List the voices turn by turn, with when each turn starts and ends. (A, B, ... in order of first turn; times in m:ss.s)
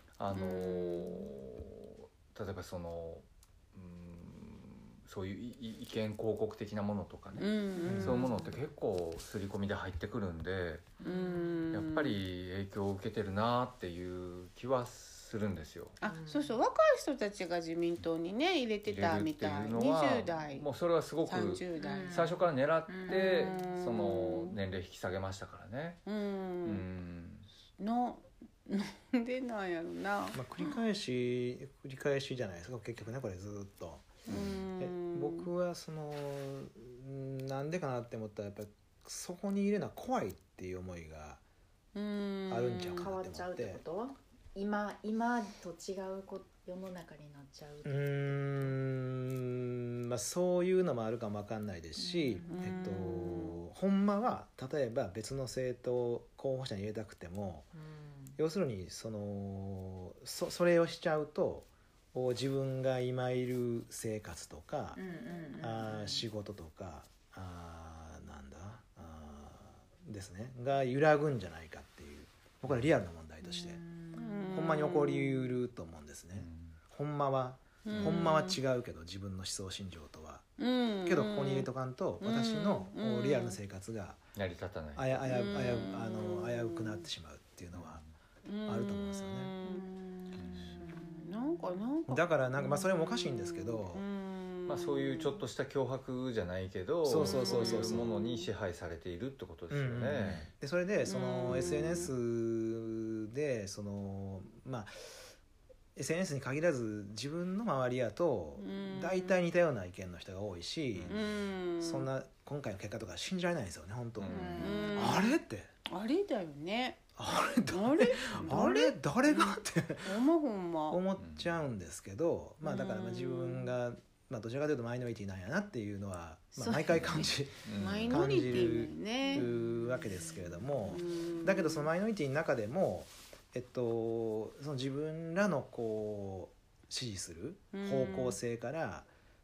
0:00.2-0:10.9 A
0:00.3-0:01.3 B
0:07.4-0:08.3 B
0:07.8-0:08.6 C
0:07.8-0:08.2 D
0:11.0-0:12.2 B
0:11.0-0:11.7 C
0:11.7-0:16.0 A
0:16.0-0:20.6 B
0:16.0-0:16.6 C
0:18.8-0:26.0 A
0:21.2-0:22.3 B
0:21.8-0:23.8 C
0:23.1-0:24.6 B
0:26.0-0:26.8 B
0:26.6-0:27.5 A
0:27.8-0:30.4 B
0:30.3-0:41.4 D
0:34.3-0:35.5 B
0:34.3-0:34.6 A
0:41.9-0:43.1 B
0:42.5-0:43.8 D
0:43.0-0:48.7 C
0:47.8-0:57.7 D
0:52.0-0:53.6 C
0:52.4-0:53.1 B
0:57.7-0:58.4 C
0:58.4-1:05.0 D
1:04.9-1:06.2 C
1:05.6-1:13.8 D
1:13.4-1:14.7 C
1:14.1-1:15.5 B
1:14.5-1:20.5 D
1:16.4-1:16.8 A
1:17.8-1:18.6 B
1:17.9-1:18.2 A
1:20.6-1:21.7 B
1:21.0-1:24.2 D
1:22.2-1:23.6 B
1:24.4-1:25.2 A
1:24.9-1:28.0 D
1:25.2-1:27.1 B
1:27.7-1:28.1 A
1:28.4-1:35.4 B
1:28.6-1:29.5 D
1:29.6-1:31.6 C
1:30.3-1:30.8 A
1:32.1-1:34.0 D
1:34.7-1:40.5 A
1:37.0-1:38.1 D
1:37.1-1:38.5 B
1:39.7-1:45.2 D
1:41.0-1:42.1 B
1:46.0-1:51.2 D
1:48.6-1:49.4 B
1:50.9-1:51.3 A
1:51.1-1:52.1 B
1:51.8-1:55.7 D
1:54.2-1:54.8 A
1:54.3-1:55.3 B
1:54.4-1:55.0 C
1:55.8-1:57.0 B
1:57.2-2:00.2 D
1:57.7-2:01.0 B
2:00.9-2:19.1 D
2:01.2-2:01.5 A
2:02.6-2:03.7 B
2:06.6-2:07.2 C
2:07.0-2:08.6 A
2:07.7-2:09.5 B
2:09.2-2:11.1 C
2:10.9-2:11.9 B
2:17.7-2:18.4 B